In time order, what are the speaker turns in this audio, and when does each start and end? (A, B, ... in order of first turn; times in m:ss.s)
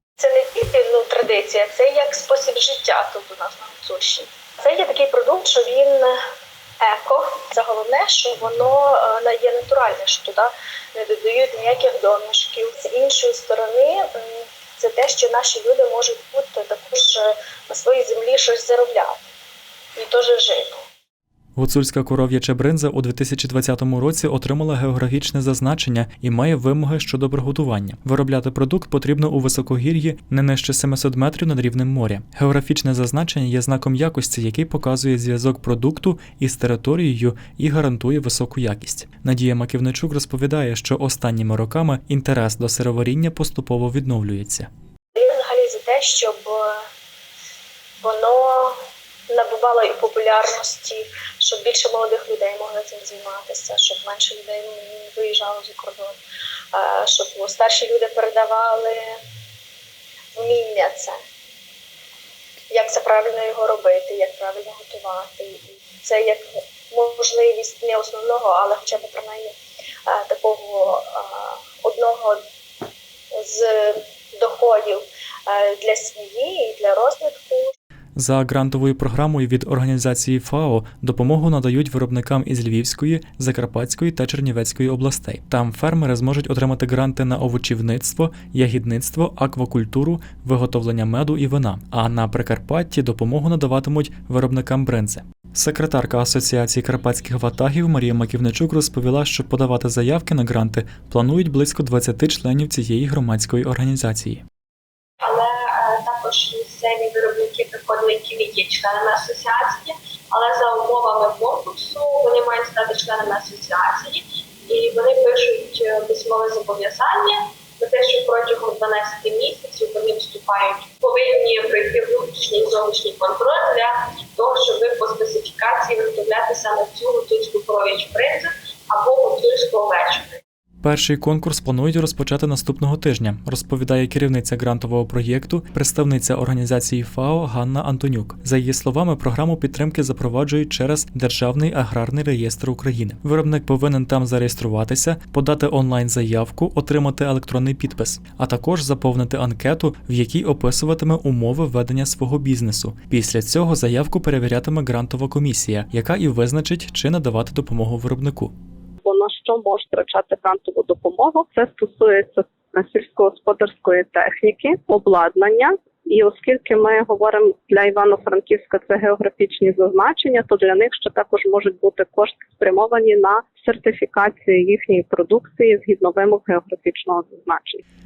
0:00.2-0:06.2 A
0:06.8-0:19.2 A
0:20.0-0:20.8 A
0:21.6-0:44.7 B
0:45.2-0:46.9 A
0:48.0-0:48.8 A
0:49.3-0:56.2 A
0:56.7-0:59.2 A
1:00.4-1:01.2 A
1:02.7-1:09.5 A
1:10.1-1:12.4 A
1:13.3-1:17.7 A
1:18.2-1:44.4 B
1:45.2-2:10.4 C
2:10.8-2:38.6 B
2:39.0-2:57.8 D